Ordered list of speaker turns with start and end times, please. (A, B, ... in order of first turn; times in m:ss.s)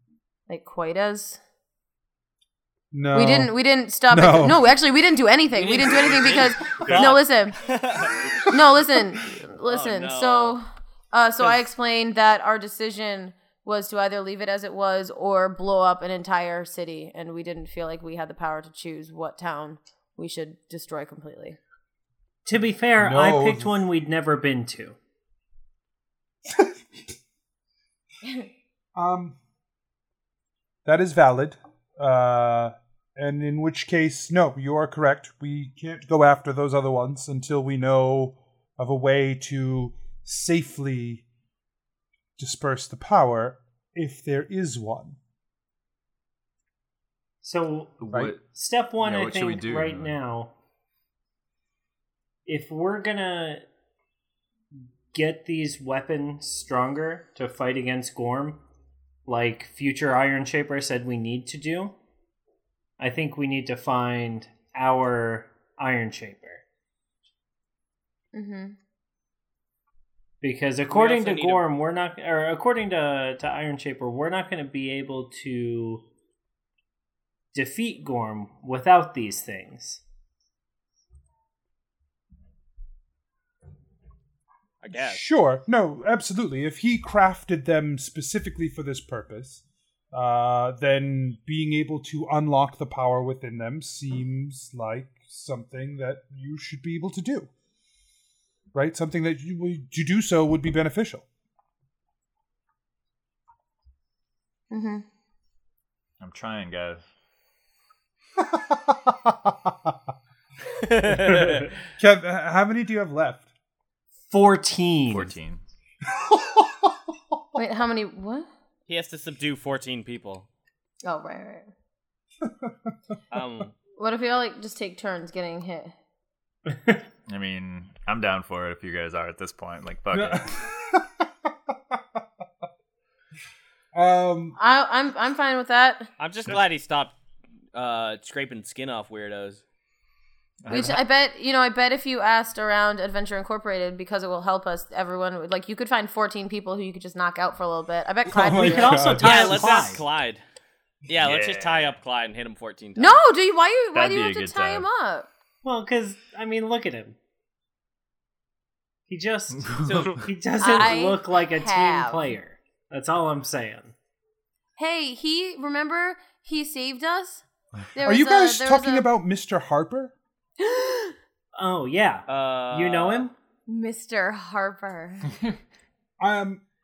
0:00.5-0:01.4 A
0:02.9-0:03.5 B
0:03.1-0:07.7 A
0:04.1-0:04.6 B
0:05.5-0:10.6 C
0:06.9-0:07.2 B
0:08.5-0:21.6 A
0:22.5-0:25.0 D
0:23.0-0:23.8 B
0:29.0-0:29.4 B
0:30.8-0:41.2 B
0:42.4-0:45.2 B
0:47.4-0:50.5 D
0:48.0-0:50.2 E
0:52.5-0:53.6 D
0:55.1-0:58.6 D
0:59.3-1:02.0 D
1:03.0-1:06.6 D
1:08.3-1:08.8 A
1:10.4-1:16.0 D
1:10.9-1:11.6 C
1:17.5-1:20.0 D
1:24.8-1:25.2 C
1:24.9-1:37.5 B
1:38.7-1:41.3 B
1:44.7-1:45.0 A
1:46.2-1:47.0 E
1:48.4-1:49.5 B
1:50.8-1:51.7 C
1:52.0-1:53.5 B
1:54.3-1:55.3 D
1:55.1-1:55.6 E
1:56.1-1:57.0 B
1:57.6-1:58.5 A
1:58.9-2:00.5 C
2:01.0-2:01.7 A
2:02.4-2:02.9 B
2:03.3-2:03.8 C
2:04.0-2:05.9 A
2:07.3-2:10.6 E
2:10.1-2:11.3 B
2:14.0-2:14.6 B
2:14.6-2:16.1 A
2:16.2-2:17.2 C
2:17.7-2:19.6 C
2:20.6-2:21.0 E
2:20.7-2:29.2 A
2:28.3-2:29.5 B
2:28.4-2:30.1 D
2:29.2-2:30.4 C
2:31.1-2:33.2 C
2:31.2-2:31.9 E
2:33.0-2:35.3 A
2:33.9-2:34.9 E
2:35.6-2:37.2 D
2:39.1-2:43.9 D
2:39.5-2:40.3 E
2:39.8-2:40.8 C
2:40.6-2:42.3 A
2:44.8-2:47.4 A
2:48.0-2:49.1 A
2:48.0-2:50.2 B
2:50.6-2:51.2 A
2:51.6-2:53.3 D
2:52.3-2:53.3 C
2:53.7-2:55.3 A
2:56.2-2:56.6 B